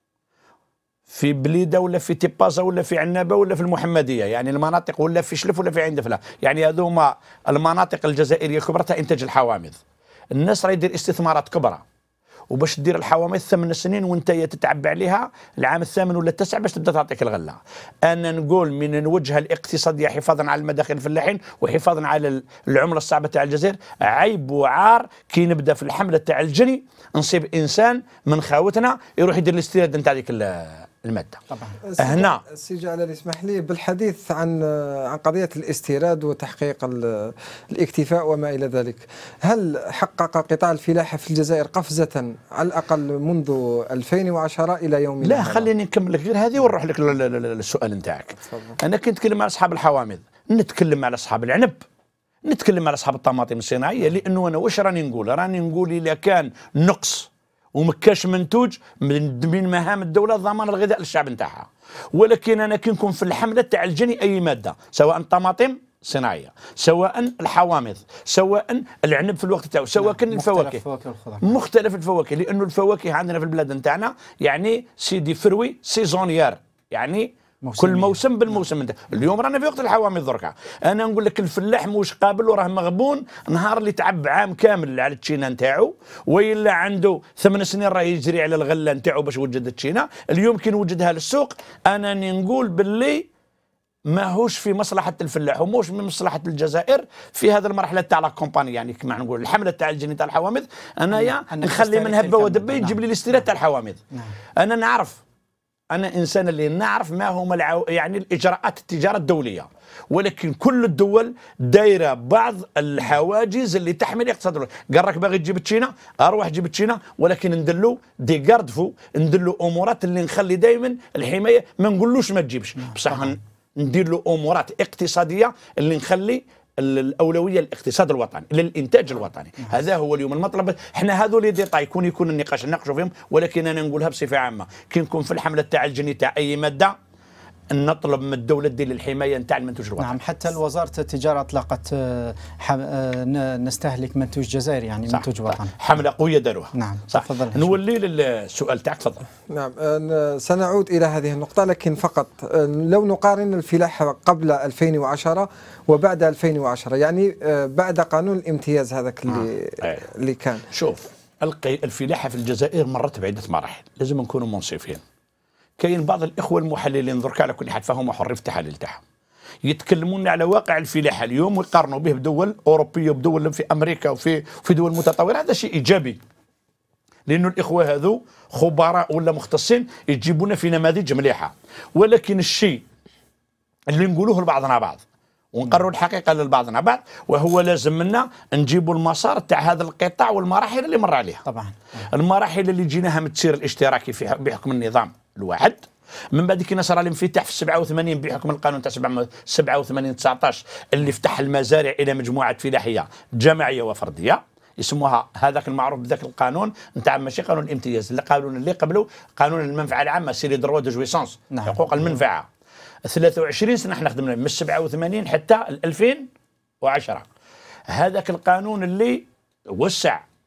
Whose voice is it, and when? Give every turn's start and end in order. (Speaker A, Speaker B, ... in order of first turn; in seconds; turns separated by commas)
Speaker A: 1.1-9.8, Speaker A: 10.3-11.8, Speaker A: 12.5-31.4, Speaker B: 31.5-31.8, Speaker C: 31.9-45.7, Speaker A: 32.0-32.4, Speaker A: 45.2-51.8, Speaker C: 48.4-48.8, Speaker A: 52.5-70.8, Speaker B: 70.0-71.6, Speaker A: 71.4-93.3, Speaker B: 77.6-78.6, Speaker A: 94.1-104.0, Speaker B: 101.1-103.4, Speaker A: 104.6-105.2, Speaker A: 105.9-136.9, Speaker B: 122.8-123.3, Speaker A: 137.7-140.2, Speaker B: 140.0-145.8, Speaker A: 145.1-149.2, Speaker B: 146.7-147.8, Speaker C: 149.5-160.7, Speaker A: 159.3-160.0, Speaker A: 160.7-165.0, Speaker A: 165.8-169.0, Speaker A: 169.7-176.2, Speaker A: 177.3-182.8, Speaker A: 183.9-185.0, Speaker A: 185.5-191.4, Speaker B: 191.4-192.1, Speaker A: 192.1-212.5, Speaker B: 211.5-212.2, Speaker A: 213.1-216.3, Speaker A: 216.8-217.2, Speaker A: 217.9-220.2